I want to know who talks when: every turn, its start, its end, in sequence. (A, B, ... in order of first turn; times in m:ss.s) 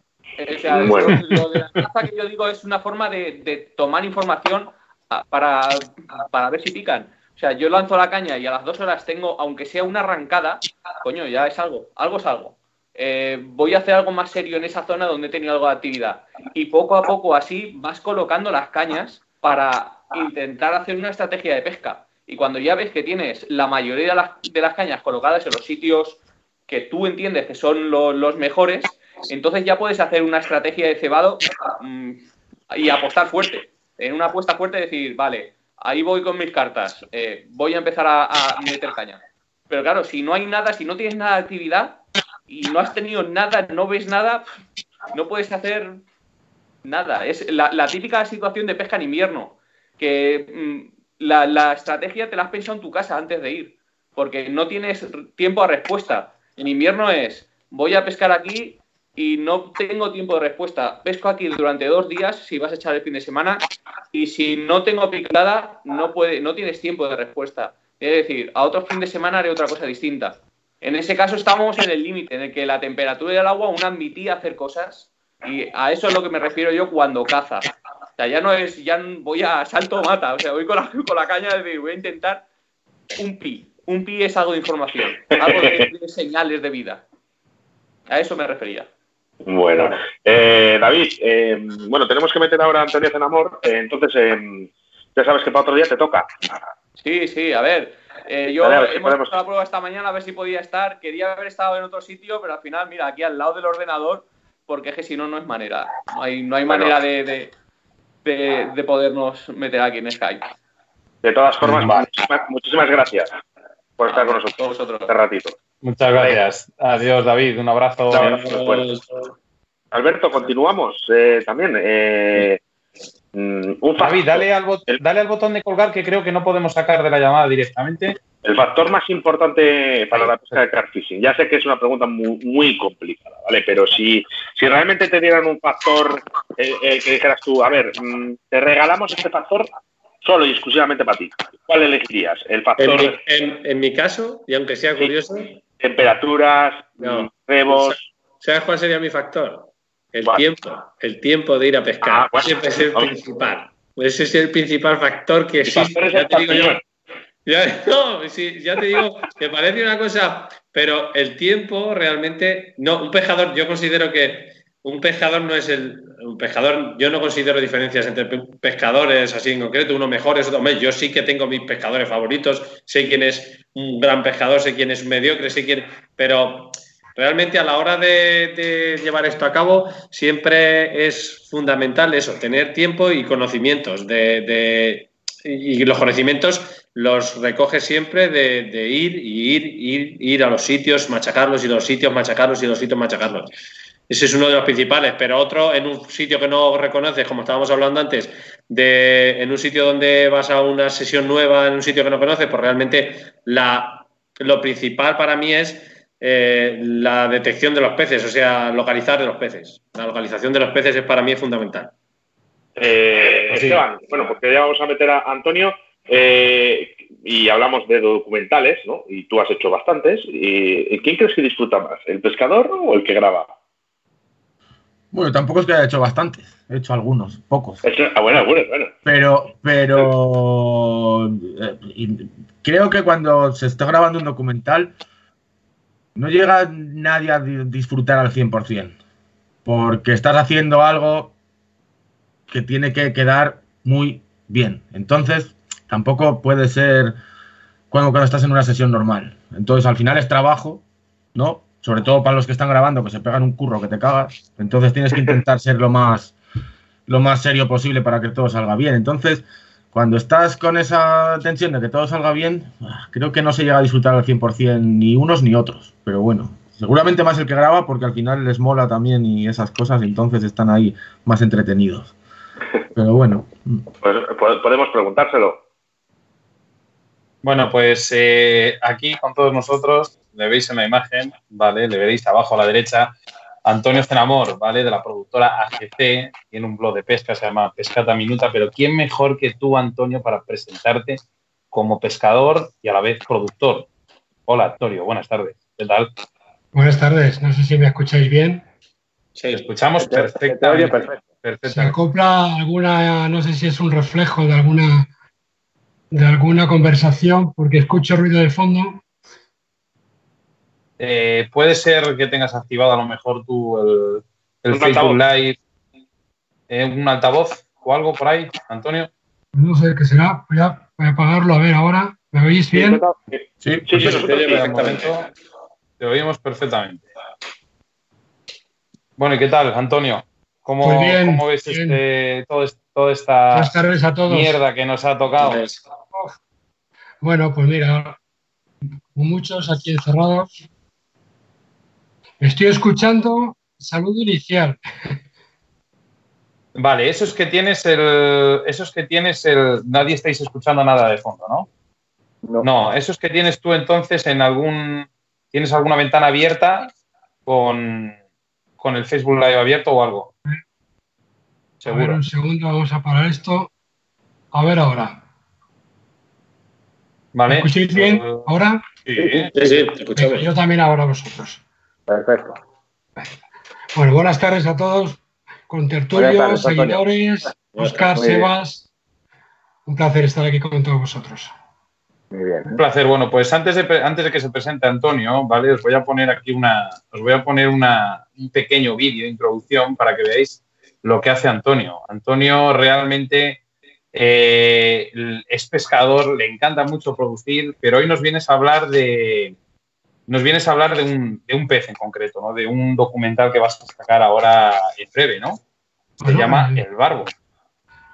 0:00.4-0:44.4 A
0:00.7-0:01.2 B
0:45.1-0:46.0 A
0:46.8-1:22.4 A
1:23.2-1:27.0 A
1:25.4-1:25.8 B
1:28.1-1:28.9 A
1:29.4-1:36.3 B
1:37.0-1:47.5 A
1:38.6-1:39.4 B
1:46.7-1:46.9 B
1:48.2-1:50.5 A
1:51.2-1:53.3 B
1:51.6-1:52.1 C
1:54.0-1:55.6 B
1:54.1-1:55.1 A
1:55.8-1:58.3 C
1:58.1-1:58.9 B
1:58.2-1:59.0 D
1:59.9-2:02.6 B
2:03.3-2:05.0 B
2:04.0-2:08.2 C
2:08.4-2:19.7 B
2:20.2-2:23.2 B
2:22.8-2:25.6 D
2:25.8-2:28.1 B
2:27.0-2:36.8 D
2:32.0-2:33.2 B
2:35.6-2:36.8 B
2:37.4-3:13.5 D
3:14.1-3:31.9 D
3:32.8-3:43.5 B
3:33.5-3:33.8 C
3:45.1-3:47.8 E
3:47.8-3:48.9 B
3:49.0-3:55.0 E
3:56.1-3:59.0 E
3:59.6-4:01.3 E
4:02.5-4:07.2 E
4:07.9-4:10.8 E
4:11.3-4:16.3 E
4:17.1-4:32.1 E
4:32.9-4:33.8 E
4:34.0-4:35.6 B
4:37.4-4:43.1 C
4:43.6-4:53.9 C
4:54.5-4:56.1 C
4:56.7-4:58.7 F
4:59.4-4:59.6 D
4:59.6-5:02.0 C
5:00.0-5:01.2 G
5:01.6-5:05.1 F
5:06.1-5:09.0 F
5:11.0-5:15.6 C
5:14.7-5:15.2 B
5:16.7-5:19.1 C
5:19.5-5:23.0 F
5:22.7-5:25.2 B
5:23.6-5:24.2 E
5:23.9-5:25.3 C
5:26.0-5:27.1 C
5:29.2-5:33.7 C
5:30.8-5:32.0 F
5:33.5-5:34.6 F
5:34.3-5:35.6 C
5:35.4-5:35.8 D
5:37.2-5:38.2 F
5:39.1-5:40.5 F
5:42.4-5:44.8 F
5:46.7-5:51.7 C
5:52.6-5:56.9 C
5:57.4-5:58.2 C
5:58.8-6:00.3 C
6:01.8-6:02.2 C
6:01.8-6:03.7 F
6:04.5-6:05.2 F
6:07.3-6:08.5 C
6:07.5-6:08.8 F
6:09.0-6:09.5 C
6:09.2-6:09.8 G
6:09.5-6:10.5 D
6:10.2-6:11.6 F
6:12.1-6:12.6 G
6:13.9-6:18.9 F
6:16.1-6:17.0 G
6:17.7-6:18.2 D
6:18.2-6:18.5 G
6:19.8-6:21.5 F
6:22.3-6:22.8 G
6:22.7-6:33.6 C
6:34.1-6:39.6 C
6:40.3-6:45.6 C
6:46.2-6:46.8 F
6:46.2-6:47.3 C